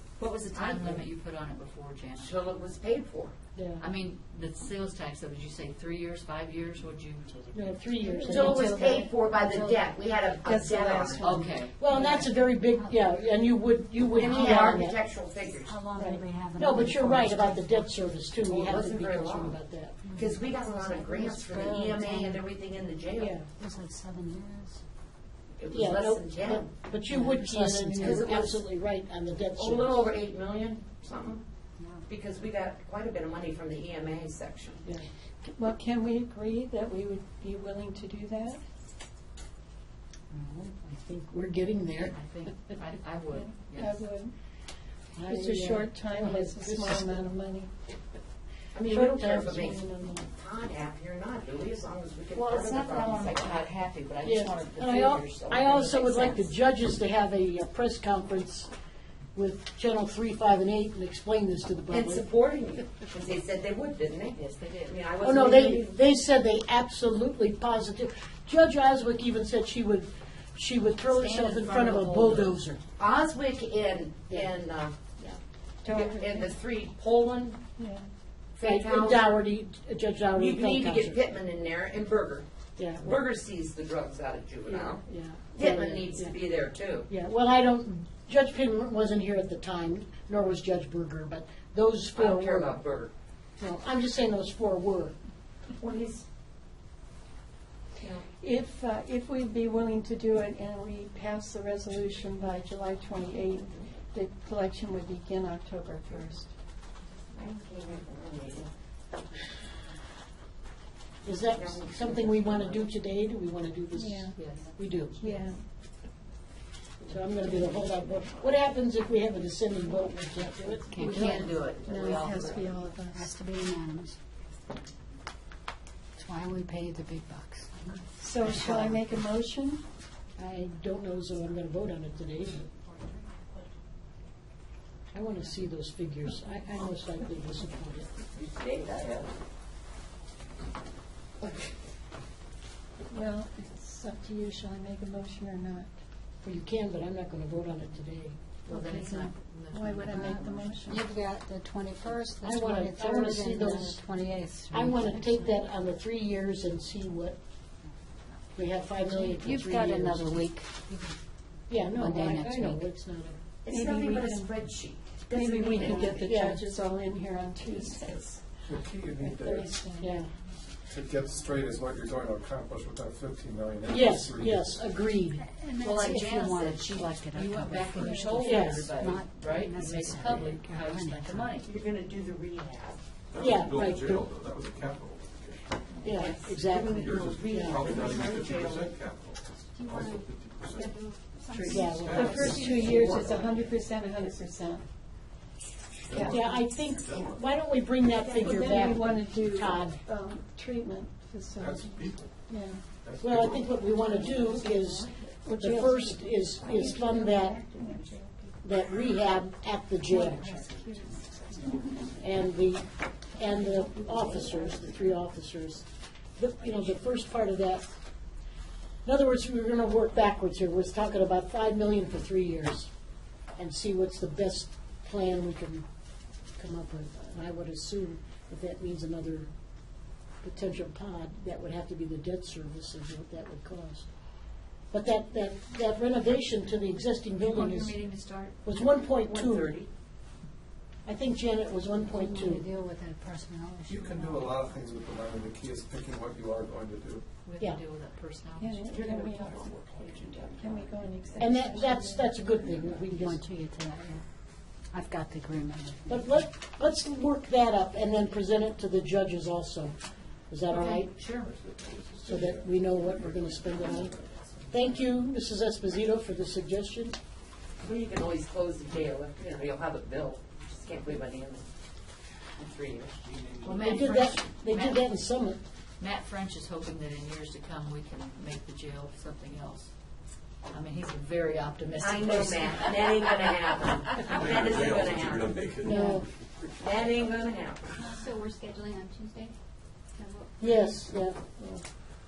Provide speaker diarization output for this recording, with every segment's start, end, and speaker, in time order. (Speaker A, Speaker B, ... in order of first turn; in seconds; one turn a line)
Speaker A: 0.2-1.0
Speaker B: 0.5-2.4
Speaker A: 2.2-3.3
Speaker C: 3.6-3.8
Speaker B: 3.8-7.3
Speaker C: 7.5-8.7
Speaker D: 8.0-9.1
Speaker A: 8.2-11.4
Speaker E: 8.5-9.8
Speaker D: 10.4-11.6
Speaker B: 11.2-12.3
Speaker C: 11.8-15.0
Speaker E: 12.8-13.1
Speaker E: 14.1-14.7
Speaker A: 14.2-15.8
Speaker E: 15.6-18.0
Speaker C: 16.0-20.0
Speaker A: 18.4-19.6
Speaker E: 20.1-22.4
Speaker A: 20.1-23.3
Speaker C: 23.2-23.5
Speaker E: 23.6-24.8
Speaker A: 25.6-26.7
Speaker C: 25.7-30.1
Speaker E: 27.1-27.5
Speaker D: 27.4-28.3
Speaker A: 28.0-28.7
Speaker A: 29.6-31.4
Speaker E: 31.8-32.0
Speaker A: 32.1-34.8
Speaker D: 35.5-38.6
Speaker C: 40.3-42.2
Speaker B: 42.0-44.1
Speaker D: 43.3-44.3
Speaker C: 45.2-47.2
Speaker D: 45.2-47.7
Speaker A: 48.7-53.7
Speaker C: 48.9-50.1
Speaker D: 49.6-50.2
Speaker B: 52.3-56.5
Speaker C: 54.2-58.7
Speaker C: 59.4-62.2
Speaker A: 61.9-66.0
Speaker B: 64.5-65.0
Speaker C: 65.2-72.8
Speaker B: 71.1-72.6
Speaker A: 73.0-75.0
Speaker D: 75.8-76.5
Speaker A: 75.8-77.6
Speaker D: 77.8-78.1
Speaker A: 78.6-79.4
Speaker C: 78.6-81.2
Speaker A: 80.3-82.5
Speaker C: 82.8-83.2
Speaker A: 83.0-85.0
Speaker C: 84.7-86.3
Speaker A: 85.5-87.1
Speaker C: 87.1-92.8
Speaker A: 92.2-93.1
Speaker C: 93.6-95.1
Speaker A: 95.8-96.2
Speaker A: 98.0-98.3
Speaker D: 98.4-106.5
Speaker A: 107.3-108.7
Speaker C: 111.2-115.3
Speaker A: 111.5-112.9
Speaker D: 114.0-114.4
Speaker B: 114.3-114.8
Speaker D: 115.2-115.6
Speaker C: 117.0-121.3
Speaker E: 120.9-121.5
Speaker B: 120.9-122.8
Speaker D: 121.0-123.3
Speaker E: 123.1-124.2
Speaker E: 126.2-129.1
Speaker D: 128.2-129.8
Speaker C: 130.4-132.7
Speaker C: 135.1-138.1
Speaker A: 138.3-139.3
Speaker D: 143.1-145.9
Speaker C: 146.4-148.6
Speaker B: 148.7-150.9
Speaker D: 148.7-151.0
Speaker E: 150.1-155.6
Speaker C: 152.4-154.0
Speaker C: 154.7-157.4
Speaker C: 158.6-160.5
Speaker E: 159.1-161.2
Speaker C: 161.7-163.4
Speaker E: 161.8-162.9
Speaker A: 163.6-166.4
Speaker D: 163.7-164.6
Speaker D: 165.3-168.2
Speaker C: 166.2-166.7
Speaker A: 167.8-168.4
Speaker F: 168.7-169.8
Speaker D: 169.2-170.2
Speaker C: 169.5-170.3
Speaker F: 170.9-174.8
Speaker C: 173.9-175.5
Speaker E: 175.7-181.6
Speaker B: 175.8-181.7
Speaker D: 178.0-178.5
Speaker C: 178.4-178.9
Speaker A: 181.6-183.0
Speaker F: 183.3-185.9
Speaker C: 183.4-184.3
Speaker C: 186.0-187.9
Speaker A: 186.0-189.0
Speaker F: 186.8-190.9
Speaker G: 189.7-191.8
Speaker D: 191.5-194.9
Speaker C: 191.7-192.8
Speaker F: 191.7-193.8
Speaker G: 192.4-194.3
Speaker F: 196.1-197.4
Speaker D: 196.1-196.4
Speaker C: 196.2-200.0
Speaker A: 198.2-198.9
Speaker D: 198.3-202.8
Speaker F: 201.6-202.4
Speaker F: 203.0-203.8
Speaker C: 203.2-207.6
Speaker D: 204.4-208.5
Speaker C: 208.6-210.5
Speaker D: 210.1-212.0
Speaker C: 212.2-215.8
Speaker C: 216.4-217.9
Speaker C: 219.0-222.9
Speaker C: 223.6-225.8
Speaker C: 226.6-229.5
Speaker C: 230.4-234.1
Speaker C: 234.9-238.0
Speaker G: 237.4-238.6
Speaker C: 238.6-239.8
Speaker A: 239.2-239.9
Speaker C: 241.1-242.7
Speaker E: 242.0-244.6
Speaker F: 243.9-247.2
Speaker B: 247.4-248.8
Speaker D: 248.6-252.4
Speaker A: 248.9-251.7
Speaker C: 251.4-253.4
Speaker E: 253.1-254.2
Speaker E: 254.9-256.2
Speaker C: 256.1-259.9
Speaker C: 260.5-261.1
Speaker A: 260.7-261.5
Speaker F: 261.4-264.6
Speaker C: 262.2-264.1
Speaker C: 264.7-267.2
Speaker A: 267.8-271.6
Speaker A: 272.6-273.2
Speaker F: 273.2-273.8
Speaker B: 273.6-275.1
Speaker C: 273.8-275.6
Speaker B: 276.0-279.9
Speaker B: 280.7-283.4
Speaker A: 282.0-285.9
Speaker F: 284.3-286.0
Speaker B: 284.6-284.8
Speaker C: 285.8-286.3
Speaker A: 286.8-287.9
Speaker G: 288.0-289.5
Speaker G: 290.2-291.0
Speaker C: 290.6-291.8